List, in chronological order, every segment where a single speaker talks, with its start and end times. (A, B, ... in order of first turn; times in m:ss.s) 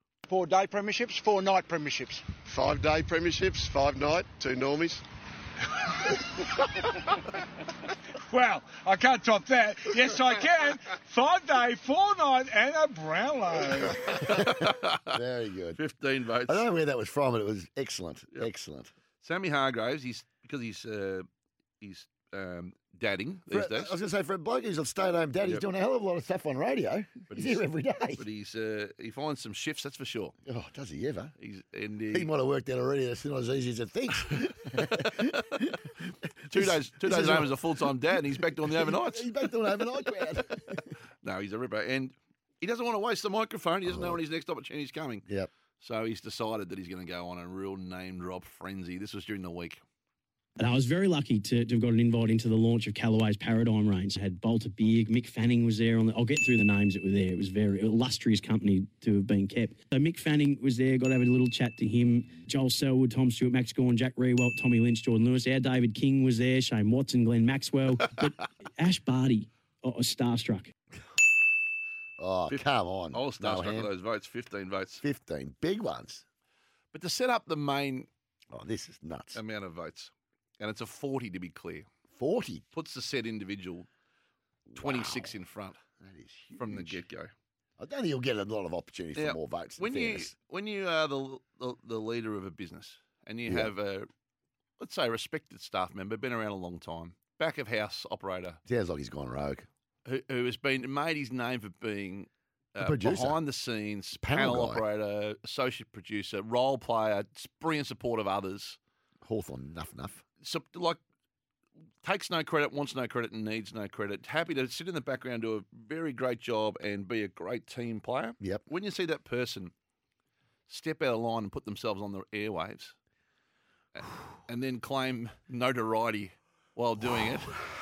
0:00.3-0:02.2 A
0:02.5-0:05.0 B
0:08.3-0:13.9 A
0:14.2-0:15.1 C
0:14.4-0:15.8 D
0:15.8-0:16.7 C
0:16.4-0:18.9 D
0:19.2-0:21.2 C
0:21.8-0:23.9 C
0:23.5-0:28.2 D
0:27.3-0:30.4 C
0:30.5-0:31.3 D
0:31.4-0:32.3 C
0:32.1-0:40.8 D
0:34.9-0:35.6 C
0:36.5-0:39.5 C
0:41.2-0:45.3 C
0:43.8-0:44.2 D
0:45.8-0:49.8 C
0:50.6-1:10.7 E
1:12.2-1:13.9 D
1:12.5-1:15.0 C
1:15.0-1:16.2 D
1:16.9-1:18.1 C
1:18.5-1:19.4 D
1:19.3-1:21.9 C
1:22.2-1:22.6 D
1:22.7-1:23.9 C
1:24.7-1:25.4 D
1:24.8-1:25.8 C
1:26.0-1:27.0 D
1:26.6-1:27.3 C
1:27.8-1:30.3 D
1:29.2-1:34.1 C
1:33.5-1:33.7 D
1:34.8-1:38.6 C
1:38.7-1:39.7 D
1:40.1-1:48.8 C
1:42.8-1:43.4 D
1:44.2-1:44.8 D
1:49.2-1:50.2 D
1:50.4-1:51.0 C
1:52.0-1:59.7 C
2:00.7-2:03.0 C
2:03.9-2:07.6 C